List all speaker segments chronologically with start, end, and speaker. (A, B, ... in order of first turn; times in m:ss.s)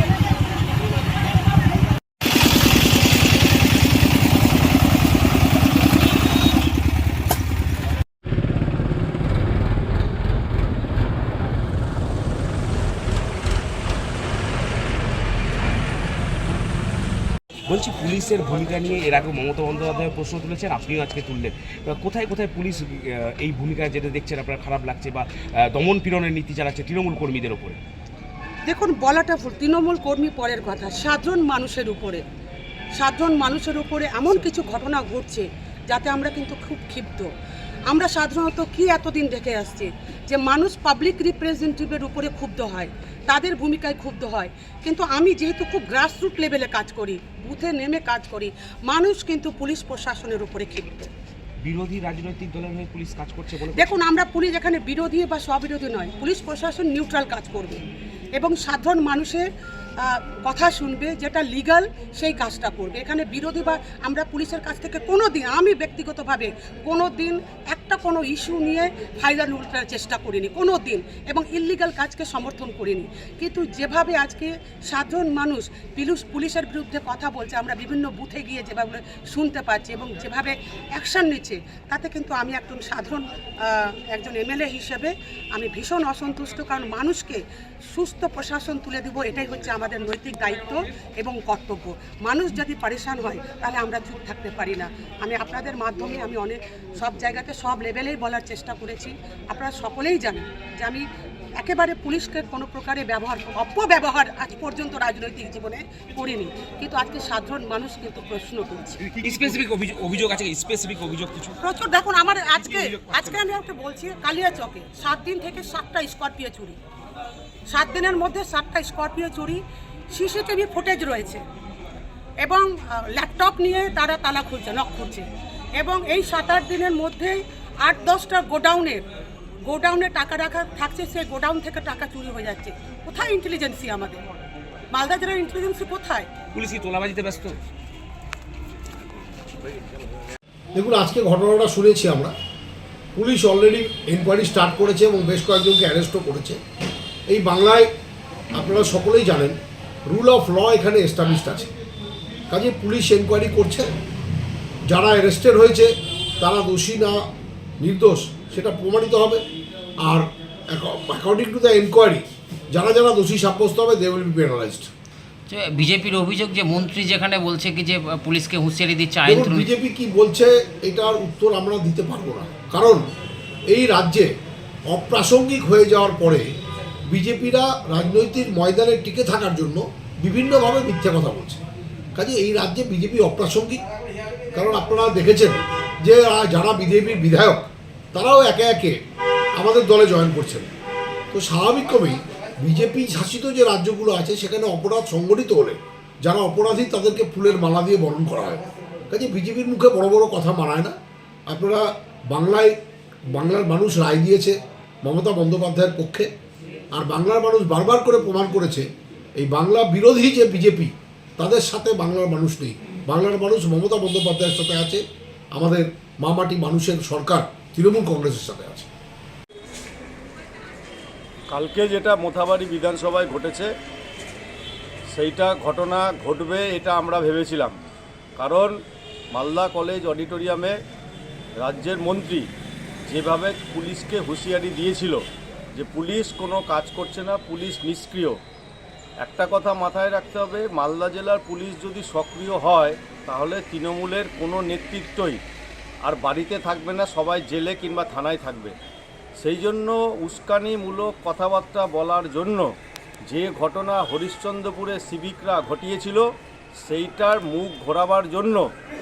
0:17.7-0:27.8 A
0:28.7-0:32.2 B
0:33.0-0:37.3 B
0:37.9-0:51.1 B
0:51.6-0:54.0 A
0:54.0-0:57.8 B
0:58.4-0:59.4 B
1:00.0-1:20.5 B
1:21.0-1:23.2 B
1:24.2-1:27.4 B
1:27.9-1:41.0 B
1:41.6-1:48.9 B
1:49.0-1:51.6 A
1:51.7-1:56.8 B
1:57.7-1:59.6 B
2:00.1-2:01.4 B
2:02.4-2:05.2 B
2:05.8-2:09.0 B
2:09.7-2:14.2 B
2:14.9-2:16.3 B
2:16.5-2:17.6 A
2:20.8-2:22.3 C
2:23.2-2:26.6 C
2:27.3-2:27.9 C
2:28.5-2:31.7 C
2:32.5-2:33.9 C
2:34.9-2:37.2 C
2:37.8-2:39.4 C
2:40.0-2:44.9 C
2:45.5-2:49.7 D
2:49.2-2:53.0 C
2:53.7-2:54.3 C
2:54.9-2:56.5 C
2:57.1-3:01.6 C
3:02.2-3:03.8 C
3:04.5-3:08.9 C
3:09.6-3:10.7 C
3:11.3-3:20.9 C
3:21.5-3:22.8 C
3:23.3-3:26.3 C
3:26.9-3:28.9 C
3:29.4-3:35.0 C
3:35.5-3:38.9 C
3:41.5-3:43.7 E
3:45.1-3:47.8 E
3:48.4-3:48.8 E
3:49.3-3:50.8 E
3:51.6-3:52.5 E
3:53.1-3:55.2 E
3:55.8-3:58.4 E
3:59.2-4:05.4 E
4:06.0-4:08.8 E
4:09.4-4:12.7 E
4:13.3-4:16.2 E
4:16.8-4:18.6 E